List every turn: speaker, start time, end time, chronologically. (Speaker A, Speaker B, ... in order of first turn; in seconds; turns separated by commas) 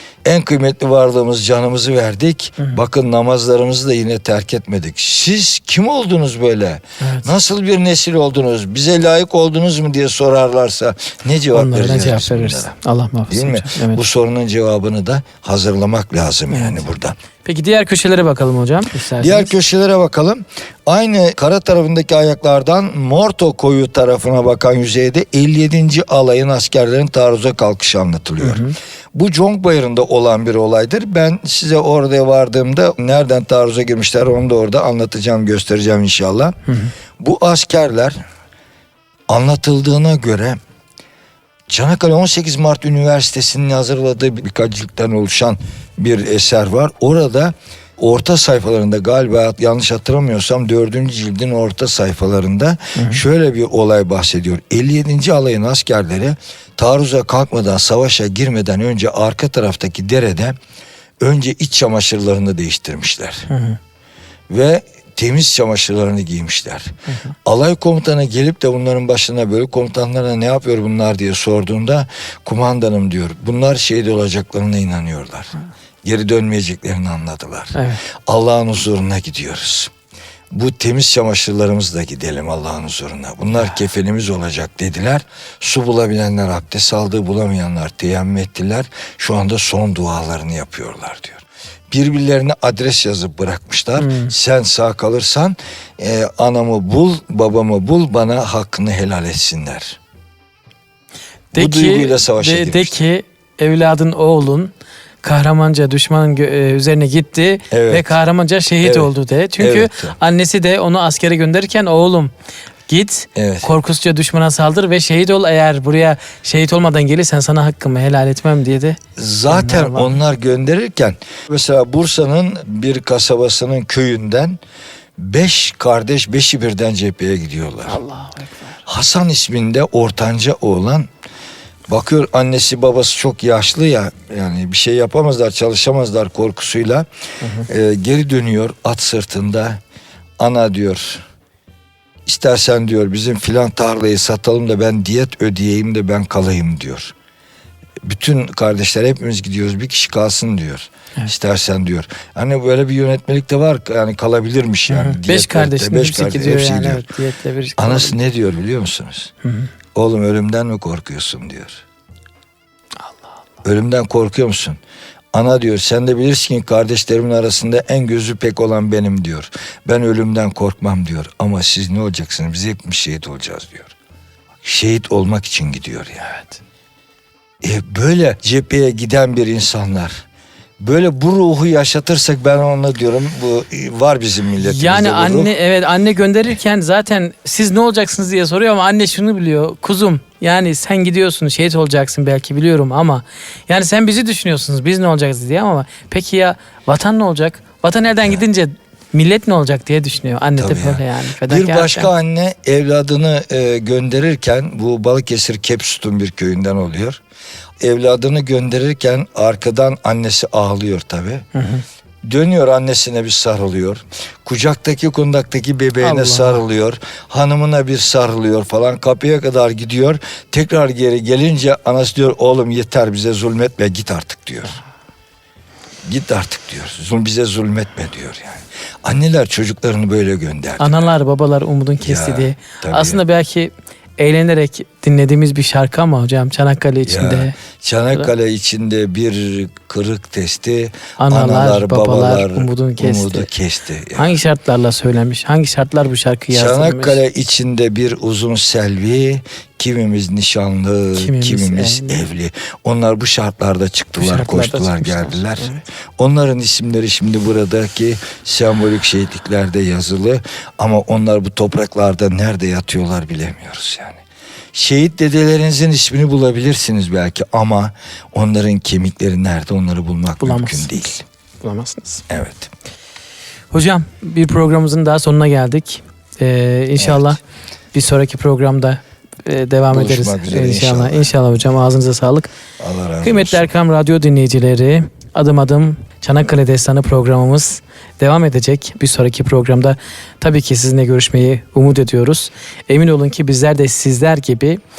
Speaker A: 0.2-12.7, Speaker B: 7.0-7.3, Speaker B: 11.5-14.0, Speaker A: 13.3-17.2, Speaker B: 16.5-16.8, Speaker B: 17.4-19.5, Speaker A: 19.2-36.6, Speaker B: 28.4-28.7, Speaker B: 36.7-36.9, Speaker A: 37.2-38.2, Speaker A: 39.3-40.6, Speaker A: 41.7-60.6, Speaker B: 53.0-53.2, Speaker A: 61.2-63.5, Speaker B: 63.5-63.8, Speaker A: 64.5-66.9, Speaker A: 67.5-77.8, Speaker B: 77.8-78.0, Speaker A: 78.3-79.9, Speaker A: 80.5-100.0, Speaker B: 94.0-94.3, Speaker B: 101.5-104.7, Speaker A: 101.6-103.0, Speaker B: 105.2-112.3, Speaker A: 107.7-108.2, Speaker A: 108.8-110.2, Speaker B: 112.9-120.2, Speaker A: 113.4-113.7, Speaker A: 119.2-124.6, Speaker A: 125.2-128.0, Speaker B: 127.9-128.8, Speaker A: 128.9-131.1, Speaker A: 131.9-137.1, Speaker B: 137.4-137.7, Speaker A: 137.6-139.8, Speaker A: 140.4-141.3, Speaker A: 142.3-147.1, Speaker A: 148.0-157.1, Speaker B: 154.9-158.2, Speaker A: 157.8-159.3, Speaker B: 159.4-159.7, Speaker A: 159.9-161.8, Speaker A: 163.7-164.8, Speaker A: 165.3-173.9, Speaker A: 174.6-176.3, Speaker B: 176.3-176.6, Speaker A: 177.6-180.2, Speaker A: 180.8-185.5, Speaker B: 184.6-202.1, Speaker A: 200.6-207.2, Speaker A: 207.8-211.4, Speaker B: 211.6-211.8, Speaker A: 212.2-224.8, Speaker B: 216.0-216.7, Speaker A: 226.1-231.1, Speaker B: 230.8-237.6, Speaker A: 232.0-233.2, Speaker A: 237.1-244.4, Speaker B: 241.2-243.5, Speaker B: 244.2-247.2, Speaker A: 246.5-264.2, Speaker B: 251.2-252.3, Speaker B: 254.2-255.8, Speaker A: 264.7-271.2, Speaker B: 270.4-272.2, Speaker A: 272.3-272.7, Speaker B: 273.7-277.4, Speaker A: 277.0-277.3, Speaker B: 277.9-282.5, Speaker A: 279.9-281.3, Speaker A: 282.8-283.7, Speaker B: 283.2-294.8